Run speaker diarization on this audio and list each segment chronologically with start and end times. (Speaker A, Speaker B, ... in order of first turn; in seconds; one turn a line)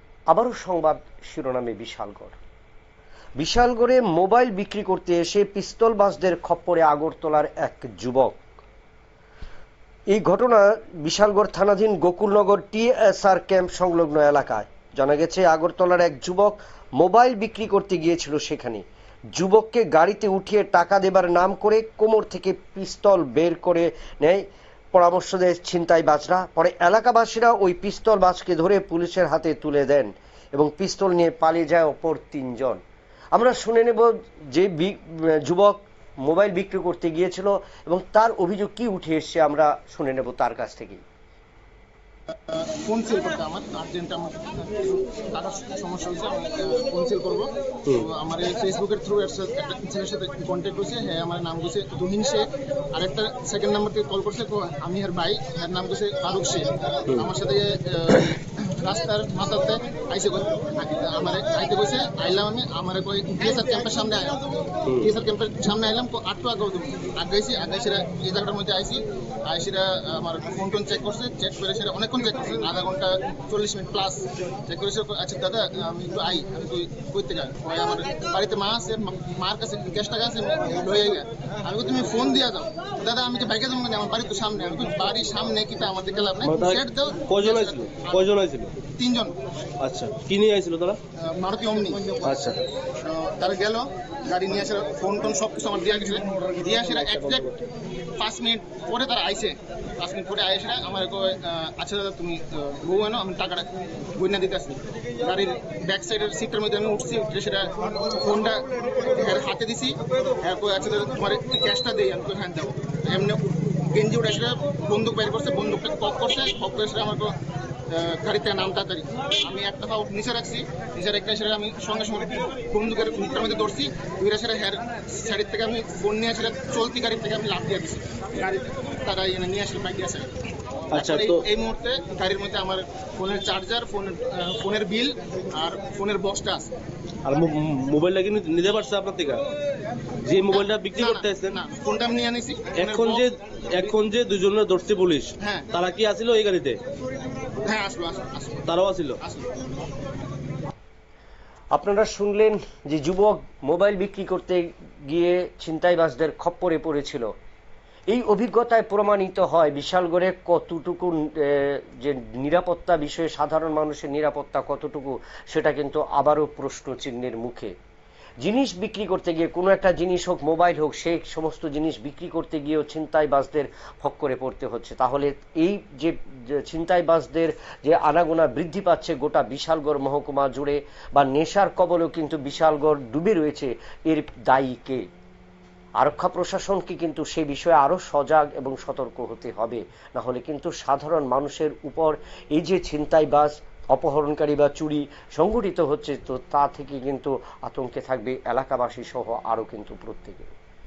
Speaker A: 0.3-2.4
Speaker A: 3.4-8.4
Speaker A: 10.1-18.8
Speaker A: 19.3-32.8
Speaker A: 33.3-41.0
Speaker B: 42.5-64.4
Speaker B: 64.9-88.2
Speaker C: 86.4-88.7
Speaker B: 89.0-89.3
Speaker C: 89.8-91.0
Speaker B: 91.2-92.2
Speaker C: 92.2-92.6
Speaker B: 93.0-97.5
Speaker B: 98.2-117.3
Speaker B: 117.9-136.7
Speaker C: 130.9-131.4
Speaker C: 137.2-139.4
Speaker C: 140.2-141.6
Speaker B: 140.5-143.2
Speaker C: 142.8-146.8
Speaker B: 145.4-145.7
Speaker B: 147.6-148.7
Speaker C: 148.7-149.2
Speaker B: 149.2-149.5
Speaker A: 151.7-157.3
Speaker A: 158.1-167.7
Speaker A: 168.4-185.1
Speaker A: 186.0-200.5